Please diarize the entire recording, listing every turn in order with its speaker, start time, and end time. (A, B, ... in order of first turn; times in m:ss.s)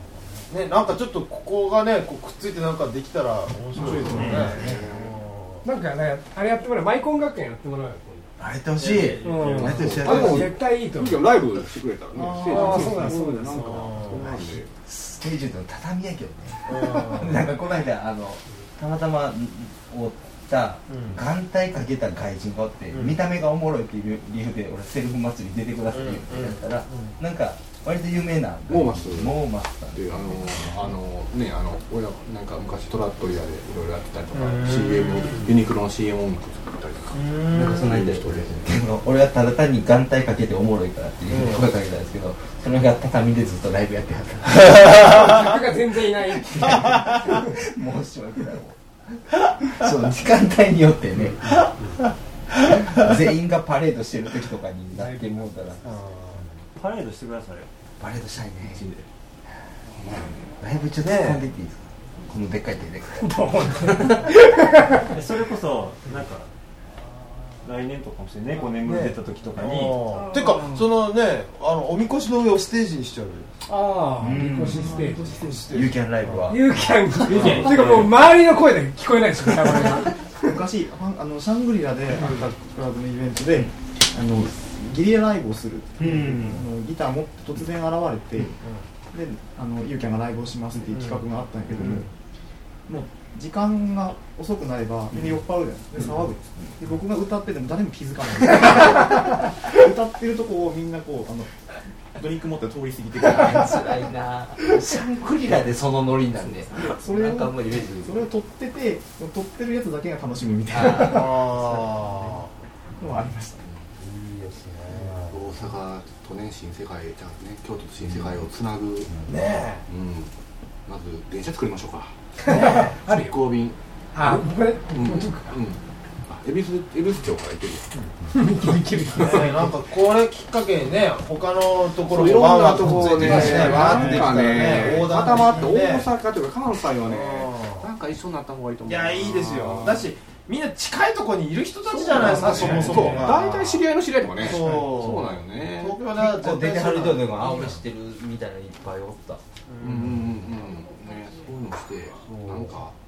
0:00.5-0:05.6 A
0:03.9-0:05.0 B
0:03.9-0:05.1 C
0:03.9-0:04.6 D
0:05.6-0:08.3 E
0:08.4-0:10.6 B
0:08.8-0:10.2 D
0:09.2-0:11.4 E
0:09.5-0:14.7 C
0:12.2-0:12.9 F
0:12.2-0:14.2 E
0:13.6-0:14.3 A
0:14.8-0:30.9 B
0:16.6-0:17.5 A
0:20.9-0:21.2 A
0:22.9-0:23.2 A
0:25.9-0:27.1 A
0:28.7-0:37.2 C
0:34.3-0:35.5 A
0:37.1-0:37.8 A
0:37.4-0:45.4 B
0:37.9-0:38.6 C
0:41.3-0:41.7 A
0:44.8-0:47.5 E
0:45.0-0:45.3 A
0:46.2-0:55.8 B
0:54.9-0:55.4 E
0:55.8-0:56.6 A
0:56.7-0:57.7 D
0:58.0-0:58.9 B
0:58.6-0:59.0 D
0:59.9-1:00.4 C
1:00.6-1:04.4 B
1:01.0-1:01.4 A
1:03.2-1:05.0 E
1:05.0-1:06.5 D
1:07.6-1:10.2 D
1:08.8-1:13.5 A
1:10.2-1:10.7 E
1:13.7-1:15.4 E
1:14.1-1:15.1 B
1:14.7-1:16.6 A
1:15.7-1:17.0 B
1:16.5-1:20.2 E
1:17.2-1:18.2 D
1:17.3-1:17.9 A
1:20.4-1:28.6 F
1:26.0-1:26.6 B
1:29.1-1:32.1 F
1:30.9-1:31.2 A
1:32.9-1:41.5 F
1:42.1-1:44.1 F
1:43.2-1:48.2 B
1:46.7-1:51.4 F
1:50.7-1:51.3 B
1:51.0-1:52.5 A
1:53.0-1:53.6 F
1:54.0-1:55.6 A
1:55.3-1:59.2 C
1:59.2-1:59.8 A
1:59.8-2:00.3 C
2:00.8-2:07.9 C
2:02.4-2:03.3 E
2:02.5-2:02.9 A
2:04.1-2:05.6 E
2:08.3-2:09.7 E
2:09.1-2:16.1 A
2:12.1-2:20.1 C
2:13.2-2:14.2 E
2:17.0-2:17.9 A
2:18.8-2:27.8 A
2:21.9-2:26.0 C
2:22.1-2:23.3 E
2:26.1-2:29.4 B
2:29.7-2:30.3 A
2:29.8-2:33.0 C
2:32.2-2:32.8 A